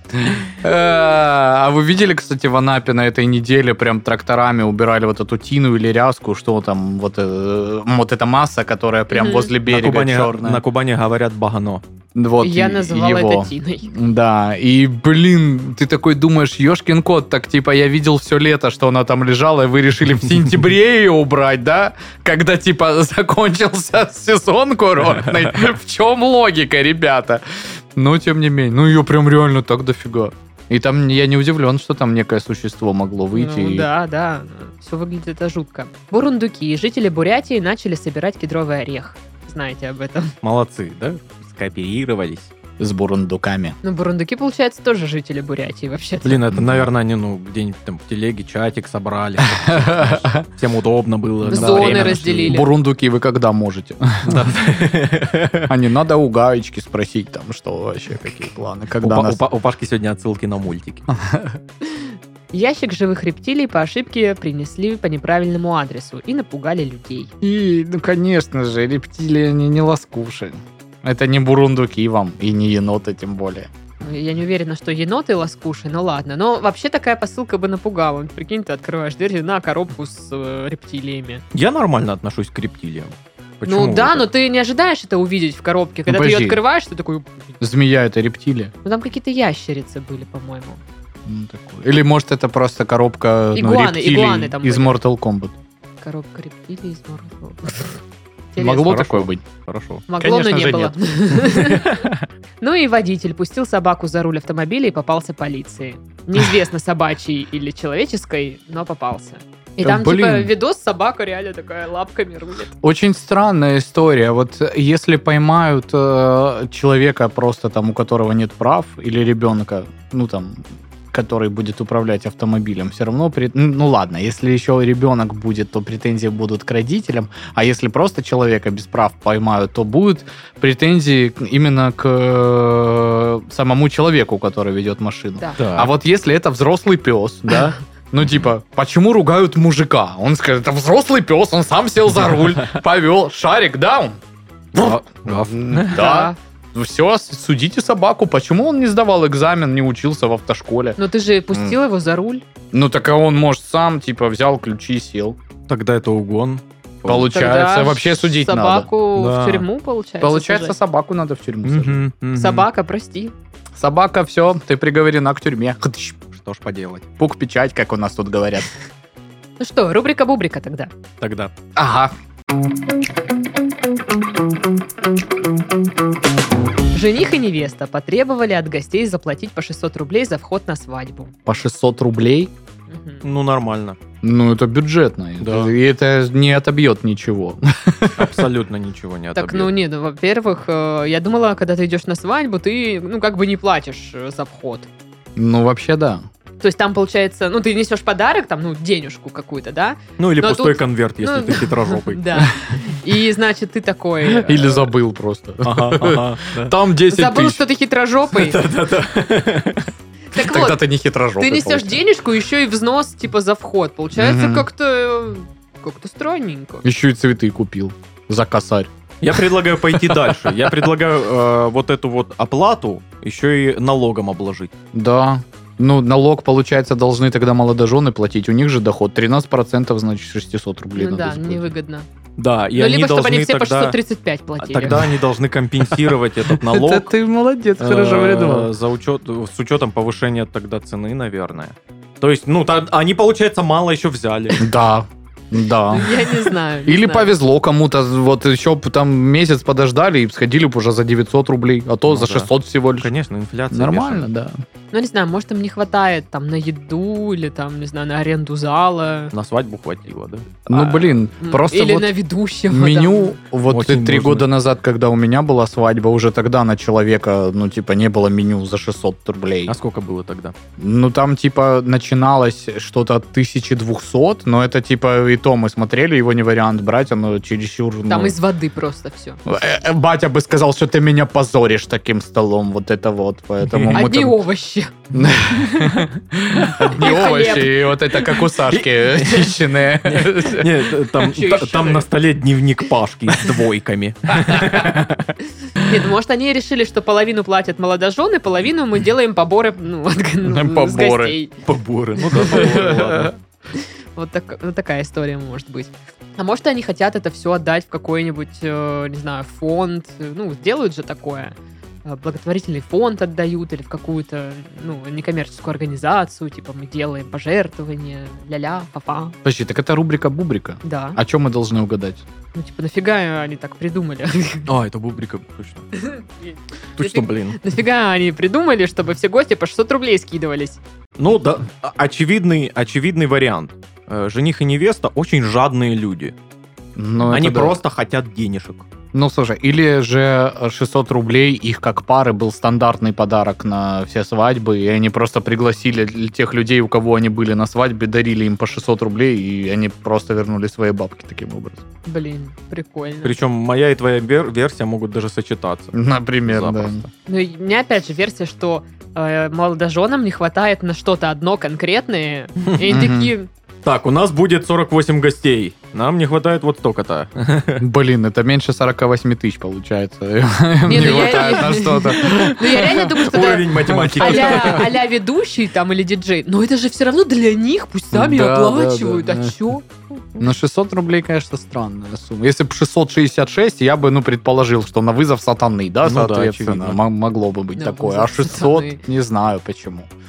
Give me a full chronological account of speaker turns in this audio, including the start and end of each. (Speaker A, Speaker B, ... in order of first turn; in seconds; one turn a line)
Speaker A: 0.1-10.6
Speaker B: 9.1-9.5
Speaker C: 9.7-11.8
Speaker A: 12.2-33.9
Speaker B: 12.4-13.9
Speaker B: 33.3-40.3
Speaker C: 40.4-42.5
Speaker A: 42.8-43.8
Speaker B: 43.8-46.4
Speaker C: 46.2-52.6
Speaker A: 46.5-46.9
Speaker A: 49.4-50.5
Speaker B: 51.5-52.7
Speaker A: 51.5-54.5
Speaker C: 54.3-55.7
Speaker A: 55.7-59.4
Speaker C: 59.0-61.1
Speaker A: 61.1-61.6
Speaker B: 61.9-67.3
Speaker A: 67.4-73.7
Speaker B: 74.0-81.4
Speaker C: 81.5-84.3
Speaker B: 83.7-87.6
Speaker A: 86.1-86.6
Speaker A: 87.6-88.7
Speaker B: 88.8-90.8
Speaker A: 91.3-95.5
Speaker B: 93.5-95.0
Speaker B: 96.0-98.0
Speaker B: 98.5-98.9
Speaker A: 98.6-99.4
Speaker C: 98.8-100.1
Speaker B: 100.1-102.0
Speaker A: 100.2-100.9
Speaker C: 101.4-102.3
Speaker B: 102.6-112.7
Speaker A: 109.8-110.5
Speaker A: 112.8-144.2
Speaker C: 135.6-135.9
Speaker C: 144.8-146.1
Speaker A: 144.8-151.0
Speaker B: 145.9-146.4
Speaker B: 151.0-152.4
Speaker A: 151.5-151.8
Speaker A: 152.7-155.4
Speaker C: 155.7-157.3
Speaker A: 157.1-158.9
Speaker B: 157.3-160.8
Speaker C: 159.2-159.7
Speaker A: 160.2-162.0
Speaker C: 161.7-162.7
Speaker B: 162.3-163.3
Speaker A: 163.8-166.2
Speaker C: 166.3-167.1
Speaker A: 167.2-168.7
Speaker B: 169.6-170.9
Speaker C: 171.2-171.5
Speaker A: 171.8-172.1
Speaker B: 176.9-181.3
Speaker A: 181.5-182.5
Speaker B: 182.9-183.2
Speaker C: 183.2-184.0
Speaker A: 184.2-188.4
Speaker C: 185.4-185.7
Speaker C: 188.2-189.7
Speaker B: 189.3-194.9
Speaker A: 195.4-196.2
Speaker B: 196.6-204.8
Speaker C: 200.2-202.5
Speaker A: 204.3-207.6
Speaker C: 205.6-206.8
Speaker B: 207.1-208.6
Speaker C: 208.3-209.9
Speaker B: 210.3-210.8
Speaker A: 210.3-212.0
Speaker B: 211.4-216.8
Speaker A: 214.2-214.7
Speaker A: 216.8-219.4
Speaker C: 219.2-224.7
Speaker A: 219.9-220.7
Speaker A: 224.9-231.7
Speaker B: 231.0-232.1
Speaker C: 232.4-234.0
Speaker B: 232.7-235.0
Speaker C: 234.6-237.1
Speaker A: 234.9-235.2
Speaker A: 235.9-238.7
Speaker C: 237.8-244.7
Speaker A: 244.6-246.3
Speaker B: 245.9-247.3
Speaker A: 246.9-253.1
Speaker C: 252.1-254.3
Speaker A: 253.7-254.5
Speaker B: 254.9-259.3
Speaker C: 259.3-260.6
Speaker A: 260.7-262.1
Speaker B: 260.7-263.4
Speaker A: 262.7-269.7
Speaker C: 263.7-264.5
Speaker C: 269.7-270.5
Speaker A: 270.8-278.4
Speaker B: 278.1-279.4
Speaker A: 279.5-284.4
Speaker C: 283.7-284.1
Speaker B: 283.9-284.9
Speaker A: 285.1-291.0
Speaker C: 286.6-286.9
Speaker B: 286.9-288.2
Speaker C: 288.6-295.3
Speaker B: 291.2-292.1
Speaker A: 294.3-295.0
Speaker B: 295.8-301.6
Speaker A: 300.4-301.4
Speaker C: 301.6-303.3
Speaker B: 302.3-302.9
Speaker A: 302.4-303.3
Speaker B: 303.7-319.4
Speaker A: 319.4-322.2
Speaker B: 320.8-321.2
Speaker B: 322.6-324.7
Speaker C: 324.7-325.9
Speaker B: 326.0-330.8
Speaker C: 327.0-327.6
Speaker C: 331.2-336.3
Speaker A: 337.0-337.8
Speaker C: 337.3-338.9
Speaker A: 339.1-351.8
Speaker B: 352.1-353.4
Speaker C: 353.2-357.1
Speaker A: 355.9-357.0
Speaker B: 357.3-363.5
Speaker A: 362.9-363.3
Speaker C: 363.8-367.8
Speaker A: 367.8-374.9
Speaker B: 370.9-379.9
Speaker C: 370.9-371.5
Speaker C: 372.2-374.9
Speaker A: 378.1-379.6
Speaker A: 380.4-390.1
Speaker C: 386.0-387.0
Speaker B: 387.8-389.0